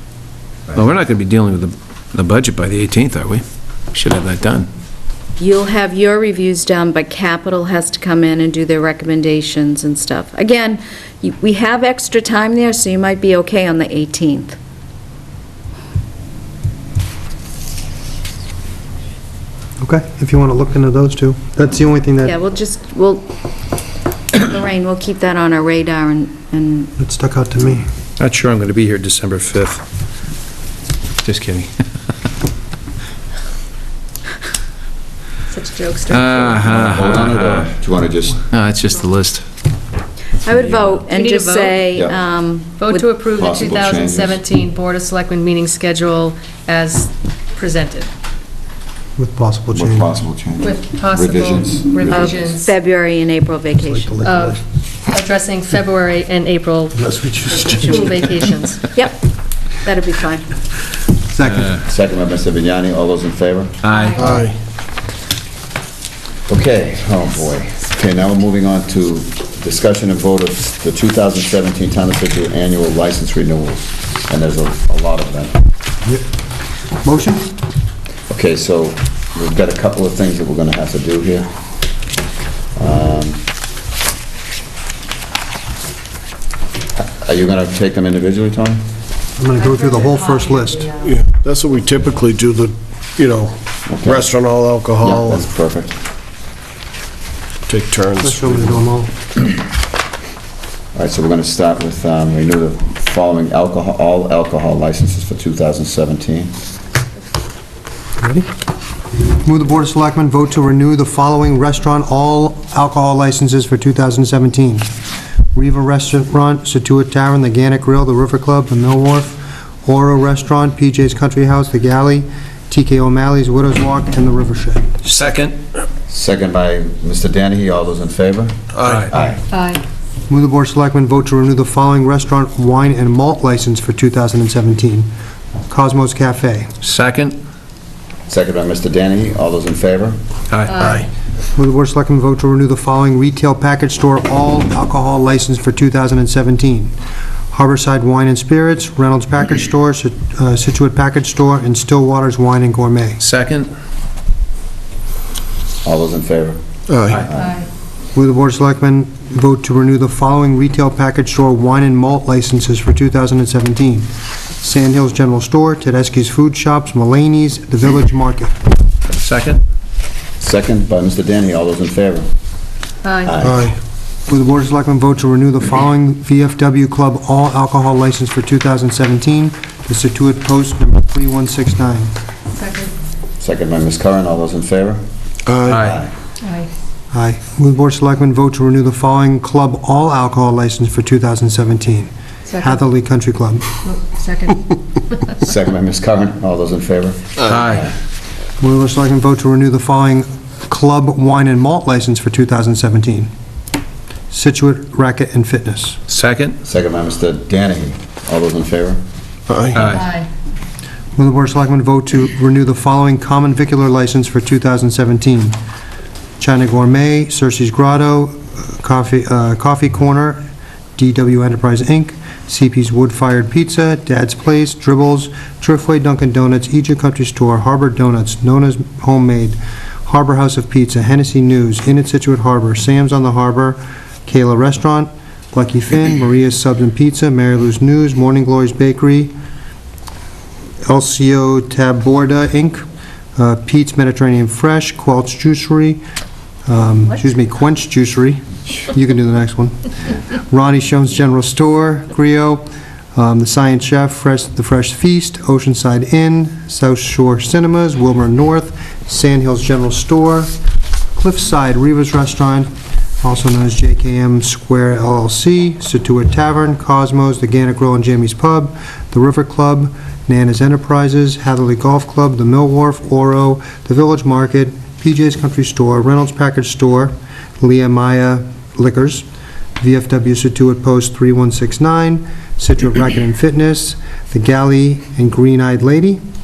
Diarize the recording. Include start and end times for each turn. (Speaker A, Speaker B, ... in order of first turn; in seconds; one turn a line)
Speaker A: 0.7-4.7
Speaker B: 5.4-14.6
Speaker C: 19.8-22.4
Speaker B: 22.2-23.3
Speaker B: 24.3-26.9
Speaker C: 27.0-27.9
Speaker A: 28.2-29.8
Speaker A: 31.2-31.7
Speaker D: 35.5-36.6
Speaker A: 36.1-37.7
Speaker E: 36.3-38.4
Speaker A: 38.5-39.5
Speaker B: 40.4-43.1
Speaker D: 41.1-41.9
Speaker D: 42.8-48.1
Speaker E: 43.3-44.4
Speaker C: 49.2-50.2
Speaker E: 49.7-52.4
Speaker D: 50.6-52.7
Speaker B: 52.1-54.1
Speaker C: 53.8-54.6
Speaker D: 54.2-57.0
Speaker C: 57.0-58.3
Speaker D: 57.5-58.8
Speaker B: 58.9-60.5
Speaker C: 61.3-61.8
Speaker E: 61.8-63.8
Speaker A: 63.8-64.3
Speaker D: 63.9-64.3
Speaker F: 64.2-64.6
Speaker E: 66.5-75.6
Speaker C: 77.0-77.5
Speaker E: 78.3-81.5
Speaker E: 82.8-83.4
Speaker E: 87.0-88.8
Speaker C: 89.4-90.9
Speaker D: 89.6-91.2
Speaker F: 91.0-95.5
Speaker E: 93.9-94.3
Speaker E: 95.0-96.0
Speaker F: 97.7-98.8
Speaker C: 98.2-99.1
Speaker E: 101.0-106.5
Speaker C: 108.2-108.5
Speaker C: 109.4-114.9
Speaker C: 115.5-125.0
Speaker A: 125.0-125.6
Speaker E: 126.1-129.4
Speaker D: 129.5-129.8
Speaker C: 130.3-135.1
Speaker C: 135.7-136.7
Speaker A: 136.8-137.4
Speaker E: 138.3-140.2
Speaker A: 140.5-141.1
Speaker D: 140.7-141.1
Speaker C: 141.5-146.9
Speaker C: 147.5-153.2
Speaker A: 153.2-153.7
Speaker E: 155.8-156.6
Speaker F: 156.9-157.3
Speaker E: 157.2-157.6
Speaker D: 157.3-157.7
Speaker C: 158.1-168.5
Speaker A: 169.2-169.6
Speaker E: 170.4-172.3
Speaker D: 173.0-173.3
Speaker E: 173.2-173.7
Speaker C: 173.4-173.7
Speaker C: 174.3-182.1
Speaker D: 182.6-182.9
Speaker E: 183.4-185.0
Speaker F: 185.5-185.9
Speaker A: 185.7-185.9
Speaker E: 185.7-186.1
Speaker D: 186.4-186.7
Speaker C: 187.1-193.7
Speaker D: 192.5-192.8
Speaker D: 193.8-195.2
Speaker E: 195.4-197.9
Speaker A: 197.5-197.9
Speaker C: 198.6-203.3
Speaker C: 204.3-206.0
Speaker A: 206.1-206.6
Speaker E: 206.6-209.0
Speaker F: 209.5-209.9
Speaker A: 209.8-210.1
Speaker D: 209.9-210.3
Speaker C: 211.2-215.6
Speaker C: 216.4-220.4
Speaker C: 221.0-239.3
Speaker C: 240.8-242.8
Speaker C: 243.4-246.0
Speaker C: 246.7-252.6
Speaker C: 253.2-260.5
Speaker C: 261.1-262.7
Speaker C: 263.2-279.2
Speaker C: 279.8-286.2